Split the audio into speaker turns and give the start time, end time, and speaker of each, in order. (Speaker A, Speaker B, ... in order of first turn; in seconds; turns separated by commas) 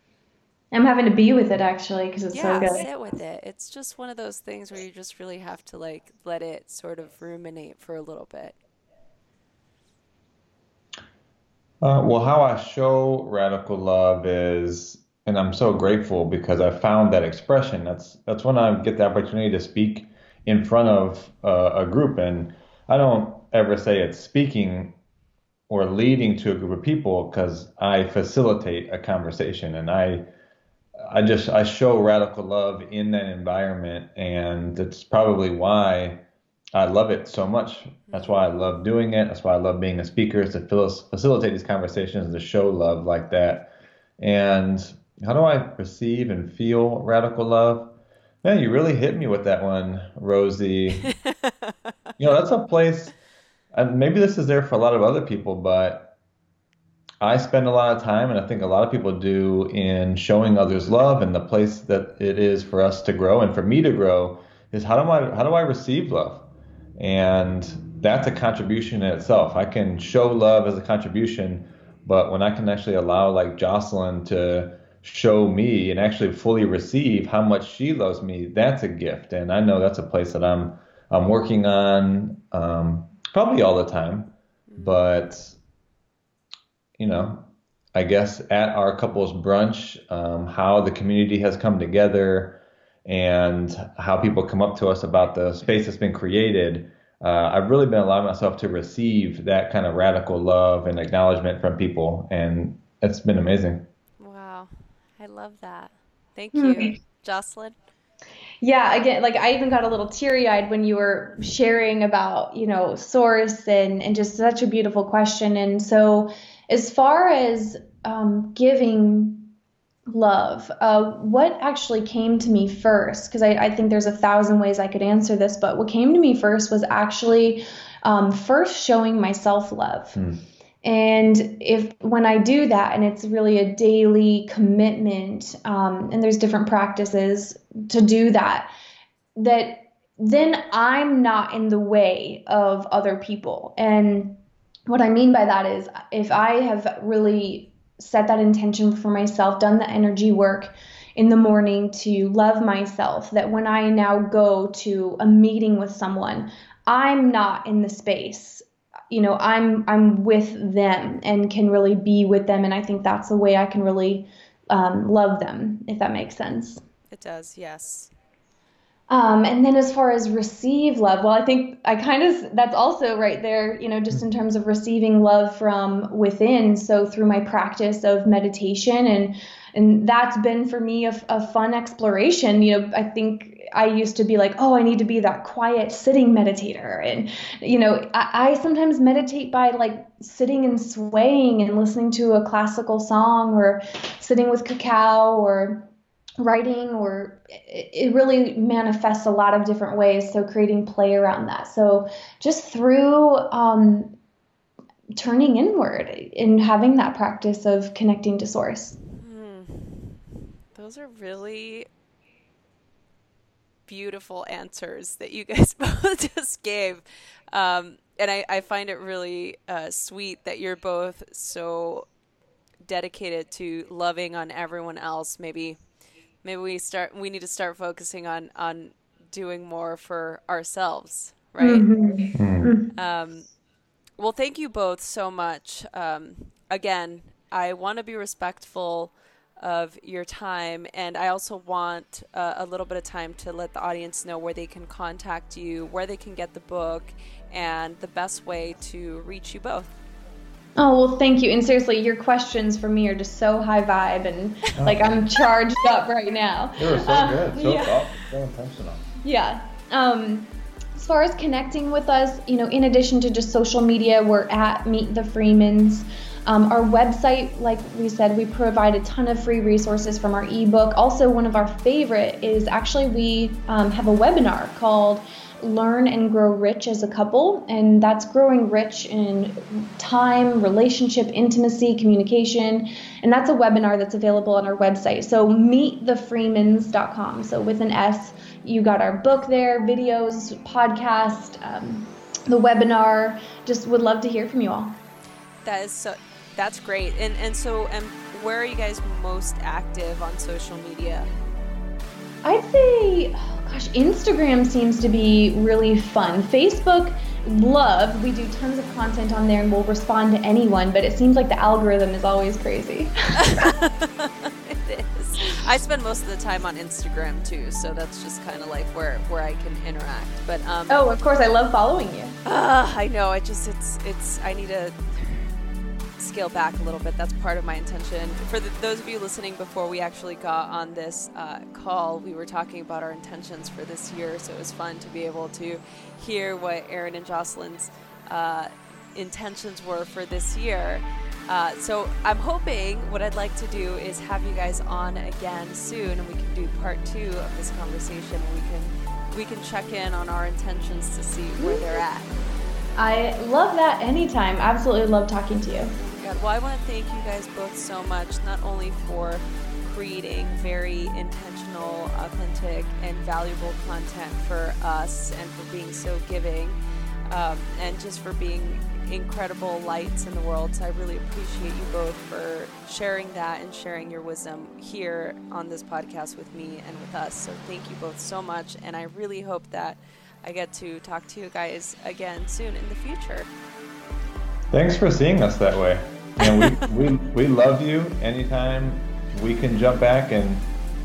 Speaker A: 0.7-2.9, Speaker B: 2.3-8.6, Speaker C: 11.8-24.9, Speaker C: 25.7-30.3, Speaker C: 31.0-36.2, Speaker C: 36.7-51.1, Speaker B: 38.1-38.4, Speaker B: 51.1-51.7, Speaker C: 52.2-53.1, Speaker C: 53.7-56.1, Speaker C: 57.2-66.5, Speaker C: 67.0-85.6, Speaker B: 84.7-85.0, Speaker C: 87.0-103.9, Speaker B: 104.2-107.8, Speaker A: 106.5-107.0, Speaker A: 108.6-119.5, Speaker A: 120.1-130.2, Speaker C: 130.2-130.4, Speaker A: 130.8-138.7, Speaker A: 139.4-166.8, Speaker B: 167.1-168.1, Speaker A: 169.1-195.9, Speaker A: 196.4-204.2, Speaker A: 205.2-209.0, Speaker B: 209.1-211.9, Speaker B: 213.9-222.1, Speaker B: 222.8-225.8, Speaker B: 226.4-231.9, Speaker A: 231.6-232.9, Speaker C: 232.3-232.7, Speaker B: 232.9-233.5, Speaker B: 234.2-249.9, Speaker A: 250.8-258.0, Speaker C: 254.8-255.3, Speaker C: 256.8-259.1, Speaker A: 259.2-295.0, Speaker B: 295.6-301.3, Speaker A: 302.4-313.7, Speaker B: 313.4-321.1, Speaker A: 320.9-322.4, Speaker B: 322.5-325.5, Speaker B: 326.2-352.3, Speaker A: 351.6-352.0, Speaker A: 353.0-355.9, Speaker B: 356.0-366.8, Speaker B: 367.3-383.5, Speaker C: 384.7-390.7, Speaker B: 386.4-386.8